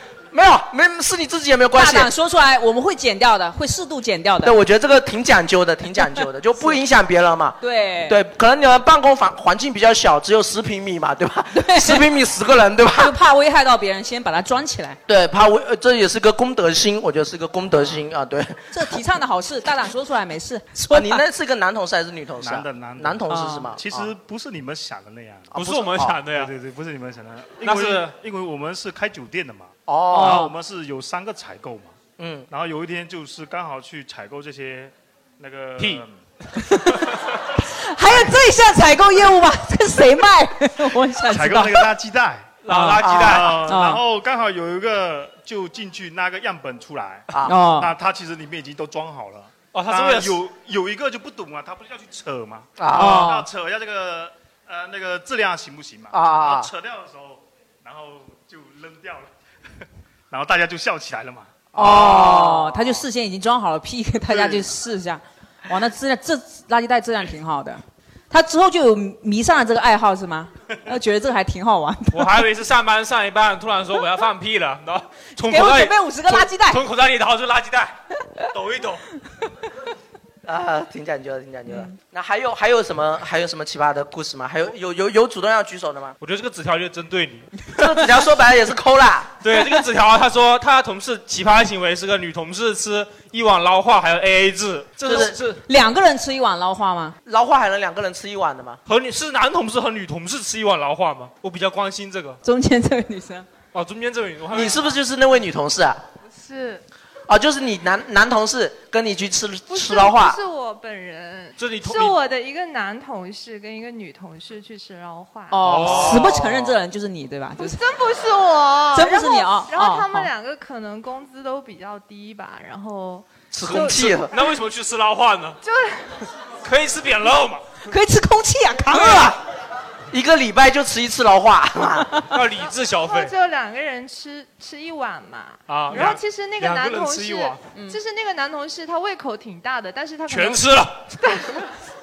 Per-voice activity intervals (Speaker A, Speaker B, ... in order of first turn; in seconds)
Speaker A: 0.3-2.1, 4.4-13.1, 15.1-18.7, 20.9-24.1, 25.5-26.2, 29.9-30.4, 32.2-32.5, 43.0-43.4, 47.3-47.5, 52.8-53.3, 56.1-56.7, 61.7-63.0, 80.5-86.2, 87.8-89.3, 95.0-95.4, 97.3-98.8, 104.5-106.0, 107.3-110.4, 115.9-116.8, 123.5-124.3, 130.1-132.1
Speaker B: 1.7-4.6, 7.6-8.2, 11.5-12.1, 13.0-15.0, 18.7-21.2, 23.3-23.7, 30.1-30.5, 36.7-37.0, 37.6-41.9, 42.7-43.1, 43.6-44.0, 47.5-47.9, 53.0-53.5, 61.8-72.4, 75.4-76.8, 81.7-81.9, 95.1-97.2, 102.4-103.5, 115.5-117.8, 118.9-120.3, 127.9-129.4, 137.7-138.0
Speaker C: 22.4-31.9, 32.5-36.2, 41.3-42.6, 43.3-59.3, 60.3-61.7
Speaker D: 25.5-26.5, 27.6-28.1, 42.6-43.6, 49.7-50.4, 72.1-78.0, 78.5-79.0, 86.2-87.7, 89.4-95.6, 98.9-102.4, 103.7-105.0, 111.6-112.2, 115.6-116.4, 123.7-125.6, 126.6-127.8, 128.9-129.3, 132.3-133.3, 135.7-137.6, 140.3-141.1
Speaker E: 106.3-106.8, 109.7-115.6, 117.6-124.0, 125.6-126.2, 133.0-141.7